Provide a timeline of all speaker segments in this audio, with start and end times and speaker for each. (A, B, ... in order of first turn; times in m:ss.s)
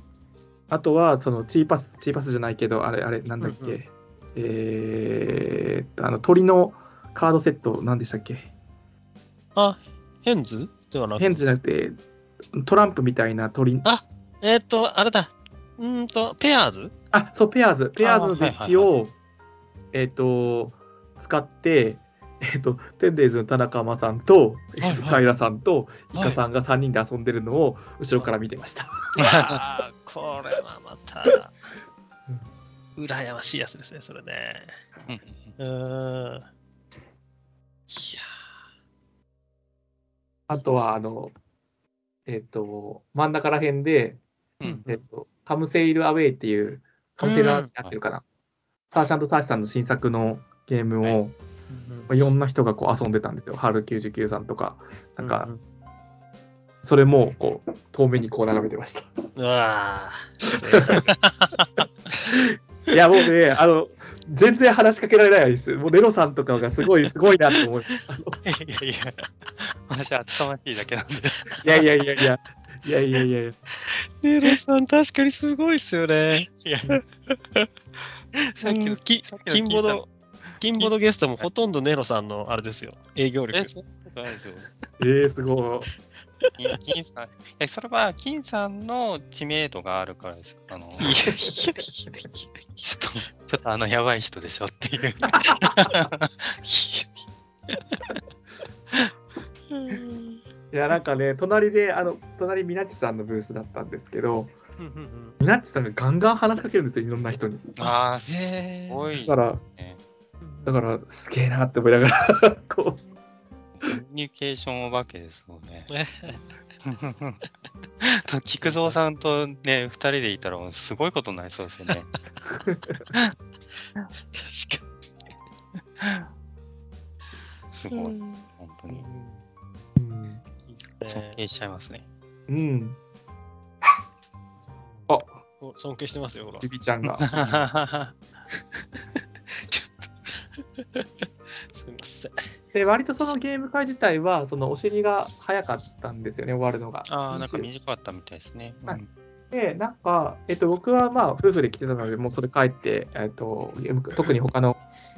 0:00.7-0:08.5 A
0:03.4-0:03.8 B
0:09.6-0:11.4 B
0:11.2-0:12.0 A
0:12.6-0:13.8 A
0:13.8-0:16.9 B
0:17.1-0:19.1 A
0:18.0-0:18.3 B
0:18.3-0:18.9 C
0:19.9-0:28.9 A
0:24.8-0:25.2 B
0:26.1-0:26.4 B
0:29.2-0:31.5 B
0:29.2-0:29.6 C
0:33.0-0:34.8 B
0:35.1-0:35.5 C
0:35.6-0:36.5 B
0:37.9-0:38.3 B
0:40.5-0:41.3 A
0:42.3-0:44.2 A
0:44.6-0:44.8 C
0:44.6-0:45.0 B
0:44.8-0:48.2 A
0:47.2-0:47.7 B
0:48.9-0:51.4 A
0:51.7-0:52.1 B
0:52.1-0:55.5 A
0:55.2-0:55.6 B
0:56.8-0:59.1 A
0:59.4-1:01.1 B
1:00.6-1:01.0 A
1:01.2-1:01.8 C
1:02.3-1:08.4 A
1:08.4-1:11.9 C
1:11.6-1:13.6 A
1:13.8-1:16.4 B
1:16.3-1:17.0 C
1:17.3-1:17.7 B
1:18.5-1:20.0 C
1:18.6-1:23.8 B
1:20.7-1:21.4 C
1:23.5-1:24.7 C
1:25.0-1:25.9 A
1:26.4-1:26.8 B
1:26.6-1:31.3 C
1:31.0-1:32.5 B
1:32.8-1:36.6 C
1:36.6-1:37.1 B
1:39.7-1:40.4 B
1:40.7-1:44.5 A
1:44.8-1:45.4 B
1:45.4-1:47.8 A
1:47.8-1:50.0 C
1:48.3-1:49.2 B
1:49.2-1:49.6 A
1:50.4-1:50.8 B
1:50.6-1:53.0 A
1:53.8-1:56.3 C
1:55.9-1:56.4 B
1:56.8-1:57.4 C
1:58.0-2:02.1 C
1:58.6-1:59.0 B
2:04.3-2:04.8 B
2:06.0-2:06.3 C
2:07.7-2:09.0 C
2:07.9-2:09.4 B
2:10.0-2:10.4 A
2:10.6-2:11.4 B
2:11.1-2:12.0 C
2:12.5-2:13.0 A
2:15.1-2:15.4 A
2:15.6-2:16.7 B
2:16.6-2:17.3 A
2:17.2-2:18.1 C
2:19.5-2:22.4 B
2:22.7-2:27.7 A
2:27.1-2:29.1 C
2:29.5-2:34.8 A